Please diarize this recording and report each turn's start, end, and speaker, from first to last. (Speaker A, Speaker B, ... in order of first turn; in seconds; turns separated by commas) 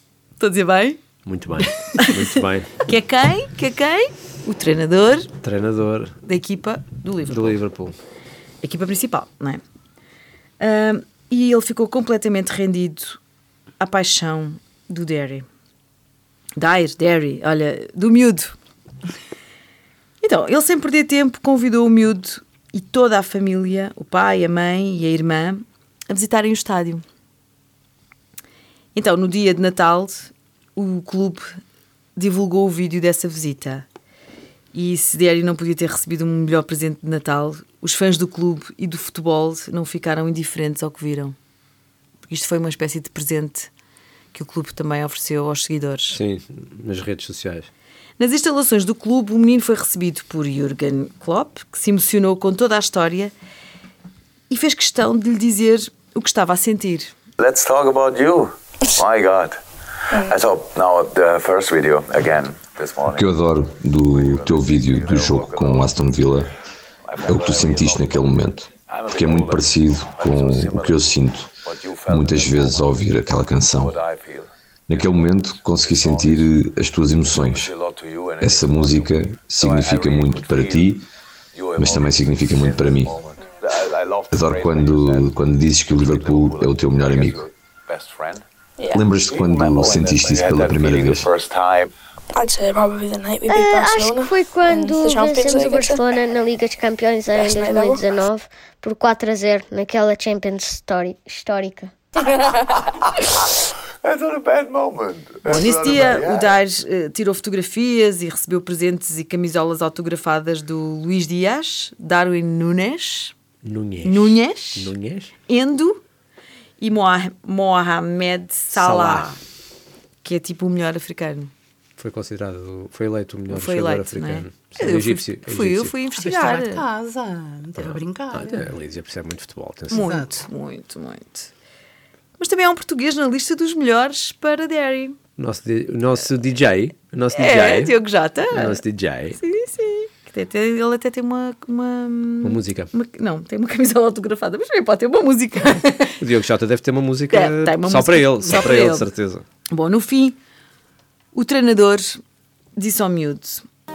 Speaker A: 0.4-1.0, Speaker B: 1.2-2.8, Speaker A: 2.0-2.2, Speaker A: 2.8-5.3, Speaker B: 5.4-6.2, Speaker A: 6.2-7.6, Speaker B: 7.3-7.9, Speaker A: 8.6-9.6, Speaker A: 10.6-13.2, Speaker A: 13.8-15.4, Speaker A: 16.6-18.5, Speaker A: 20.2-27.0, Speaker A: 28.9-31.6, Speaker A: 32.1-33.8, Speaker A: 34.7-41.4, Speaker A: 42.3-43.7, Speaker A: 44.3-46.2, Speaker B: 46.1-47.7, Speaker A: 48.2-53.3, Speaker A: 54.5-57.1, Speaker C: 57.4-59.6, Speaker C: 60.2-63.5, Speaker D: 63.1-66.5, Speaker C: 64.0-66.0, Speaker C: 67.0-71.1, Speaker D: 67.2-71.5, Speaker C: 71.6-73.0, Speaker D: 72.1-74.0, Speaker C: 73.7-76.5, Speaker D: 74.9-77.7, Speaker C: 77.2-80.9, Speaker D: 78.4-81.0, Speaker C: 81.5-88.4, Speaker D: 81.8-83.2, Speaker D: 84.3-87.5, Speaker E: 88.8-89.0, Speaker D: 88.9-91.3, Speaker C: 89.1-91.9, Speaker E: 92.3-96.1, Speaker F: 93.5-101.9, Speaker E: 97.3-98.0, Speaker C: 104.0-106.5, Speaker A: 105.5-113.3, Speaker B: 113.6-115.3, Speaker A: 114.0-114.9, Speaker A: 115.5-116.0, Speaker A: 116.8-119.4, Speaker B: 118.7-119.3, Speaker A: 120.2-121.5, Speaker B: 122.0-125.9, Speaker A: 123.5-126.8, Speaker G: 126.2-128.6, Speaker B: 127.8-130.1, Speaker A: 129.9-131.5, Speaker G: 129.9-130.3, Speaker A: 132.4-135.2, Speaker B: 135.4-137.9, Speaker A: 137.3-138.8, Speaker B: 138.5-139.4, Speaker A: 139.4-146.2, Speaker B: 142.4-142.9, Speaker B: 146.2-149.4, Speaker A: 147.3-149.1, Speaker A: 149.7-150.4, Speaker A: 151.3-152.2, Speaker A: 152.8-153.6